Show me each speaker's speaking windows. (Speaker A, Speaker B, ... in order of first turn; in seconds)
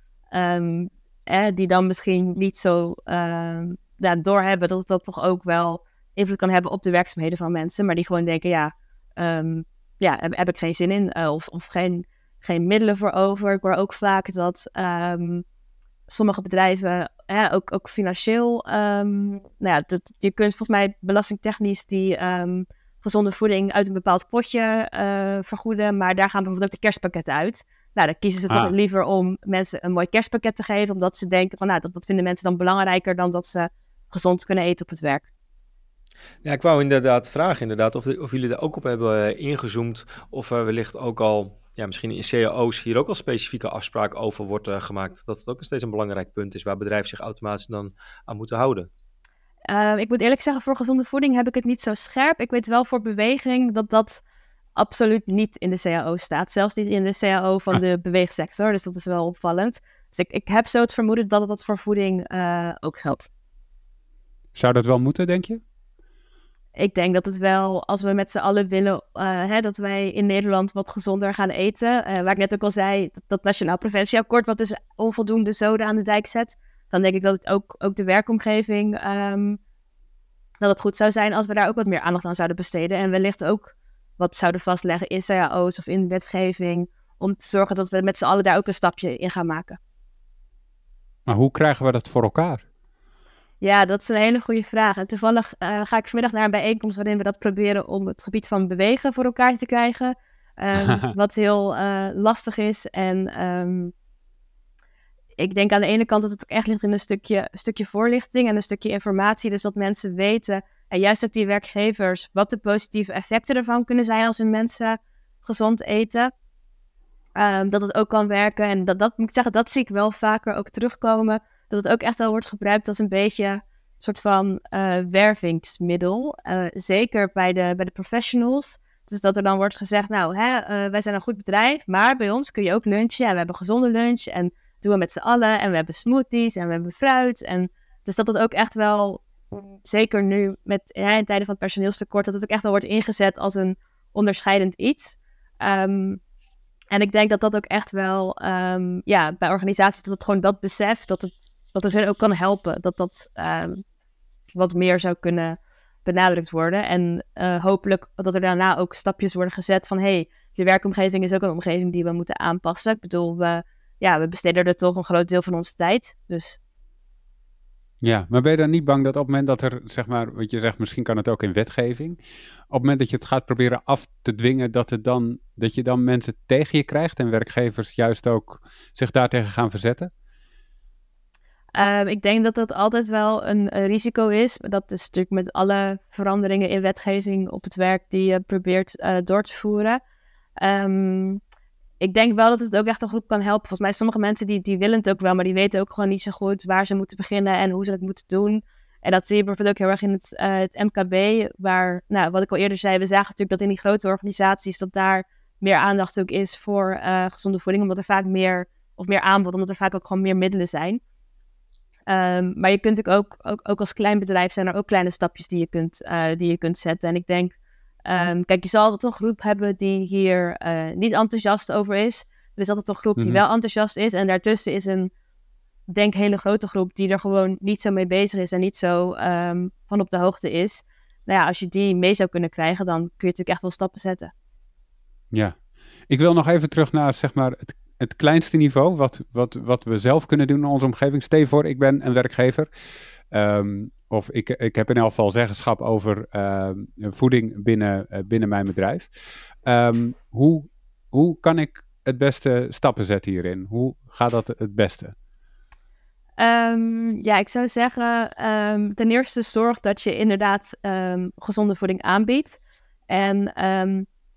Speaker A: 0.3-15.4, 16.1-35.3, 49.7-54.2, 54.8-63.3, 66.8-79.6, 80.6-89.8, 93.6-103.9, 105.4-116.3, 117.4-146.2, 146.9-153.8, 154.6-166.6, 181.7-190.0, 190.6-191.4, 192.0-211.0, 212.1-225.1, 225.9-234.3, 256.4-262.6, 263.1-264.1
Speaker B: 36.4-48.9
Speaker C: 64.5-65.6, 91.3-92.6, 100.8-101.1, 168.0-172.2, 172.7-180.1, 236.1-242.7, 243.3-249.1, 249.7-255.1